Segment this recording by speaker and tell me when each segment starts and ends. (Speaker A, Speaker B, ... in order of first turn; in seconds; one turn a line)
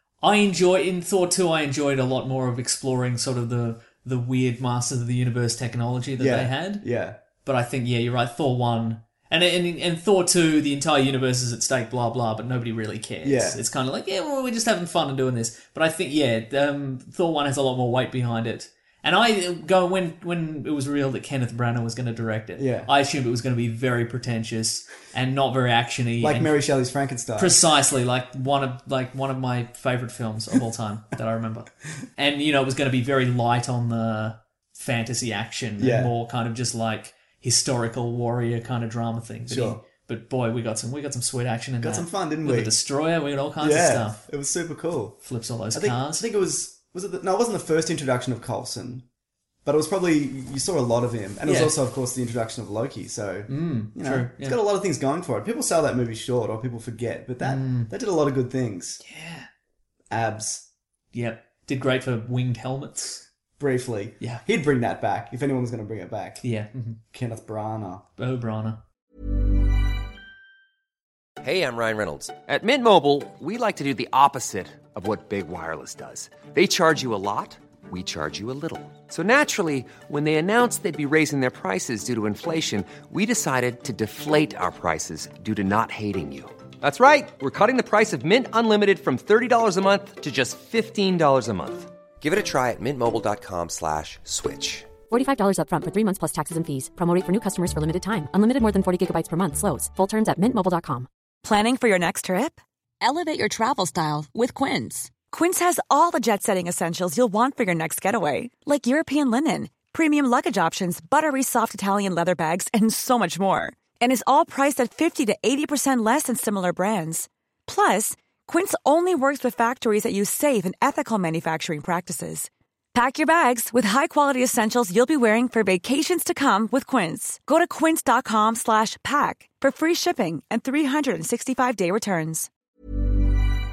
Speaker A: 0.2-6.8
Speaker B: 6.2-7.2
Speaker A: 7.4-26.5
Speaker B: 13.2-13.6
Speaker B: 22.6-22.9
Speaker B: 26.2-27.6
Speaker A: 27.4-44.2
Speaker B: 35.8-36.1
Speaker B: 39.5-39.8
Speaker B: 41.8-42.8
Speaker B: 43.6-45.2
Speaker A: 45.2-46.2
Speaker B: 45.7-49.0
Speaker B: 49.6-59.0
Speaker A: 51.5-51.7
Speaker A: 53.5-54.6
Speaker A: 57.4-57.9
Speaker A: 59.0-59.5
Speaker B: 60.1-60.7
Speaker A: 61.1-63.2
Speaker B: 63.6-66.4
Speaker A: 66.4-67.0
Speaker B: 67.1-68.0
Speaker A: 68.2-68.8
Speaker C: 71.4-95.0
Speaker D: 95.1-101.1
Speaker E: 101.4-102.6
Speaker E: 104.1-104.3
Speaker E: 105.2-132.5